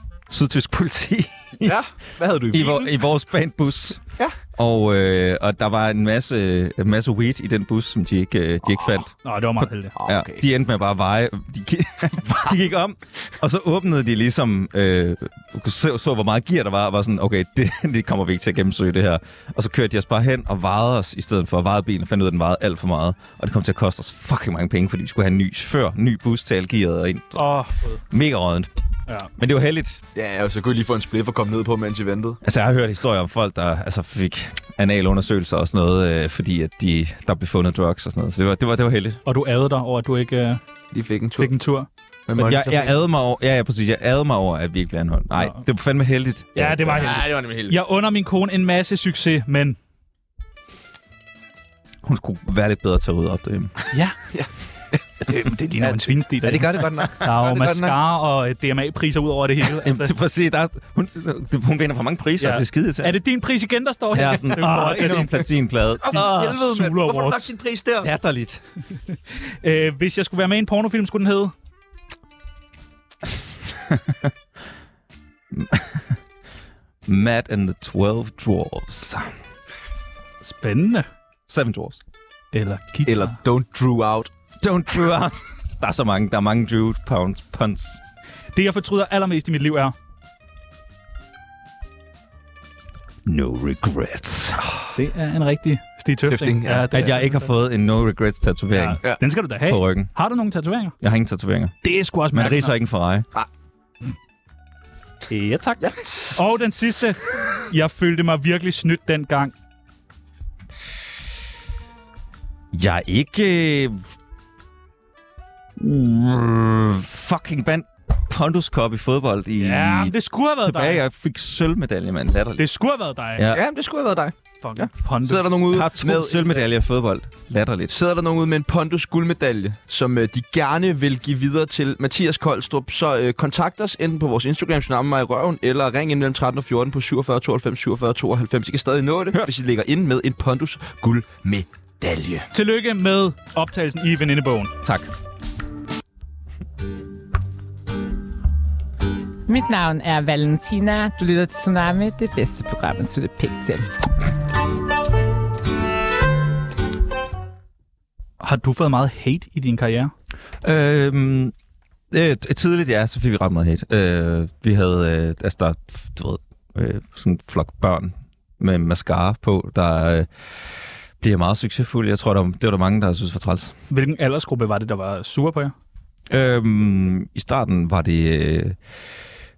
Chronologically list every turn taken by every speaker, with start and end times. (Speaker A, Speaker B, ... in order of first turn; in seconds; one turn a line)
Speaker A: 0.3-1.8
Speaker B: 1.6-3.0
Speaker A: 2.5-4.0
Speaker A: 4.5-27.5
Speaker C: 9.2-9.9
Speaker B: 10.0-10.4
Speaker C: 27.4-28.0
Speaker A: 28.1-28.7
Speaker A: 29.4-30.0
Speaker B: 30.1-32.4
Speaker A: 32.4-39.2
Speaker C: 39.3-40.6
Speaker B: 40.9-41.5
Speaker C: 41.4-41.9
Speaker B: 42.3-43.0
Speaker A: 42.4-47.2
Speaker C: 46.6-49.8
Speaker B: 47.0-47.8
Speaker A: 52.0-53.7
Speaker B: 54.3-55.0
Speaker C: 55.3-60.1
Speaker B: 55.8-58.0
Speaker A: 59.8-63.2
Speaker C: 62.4-65.5
Speaker A: 64.1-66.6
Speaker B: 66.0-68.1
Speaker C: 66.1-67.5
Speaker A: 68.0-68.6
Speaker C: 69.1-71.5
Speaker A: 73.9-74.3
Speaker A: 75.5-76.2
Speaker A: 77.1-79.3
Speaker C: 80.4-81.1
Speaker A: 81.5-82.0
Speaker C: 82.5-83.3
Speaker B: 83.1-84.3
Speaker A: 84.6-88.0
Speaker C: 88.5-90.0
Speaker A: 93.3-94.6
Speaker C: 94.9-97.5
Speaker B: 96.3-96.9
Speaker A: 96.9-99.0
Speaker C: 98.7-101.0
Speaker A: 99.6-100.1
Speaker A: 101.0-101.7
Speaker C: 101.8-102.7
Speaker A: 102.3-103.3
Speaker C: 105.3-109.5
Speaker B: 105.8-106.5
Speaker A: 112.7-114.0
Speaker A: 115.8-122.6
Speaker C: 119.6-121.0
Speaker C: 122.6-123.5
Speaker A: 123.4-123.6
Speaker B: 123.5-126.6
Speaker C: 124.6-125.6
Speaker A: 125.7-127.9
Speaker B: 127.9-142.5
Speaker C: 142.5-144.7
Speaker A: 144.8-145.1
Speaker D: 149.5-153.9
Speaker C: 158.4-160.1
Speaker A: 160.6-161.5
Speaker A: 162.1-170.3
Speaker A: 171.2-173.8
Speaker C: 173.9-175.7
Speaker A: 176.3-178.8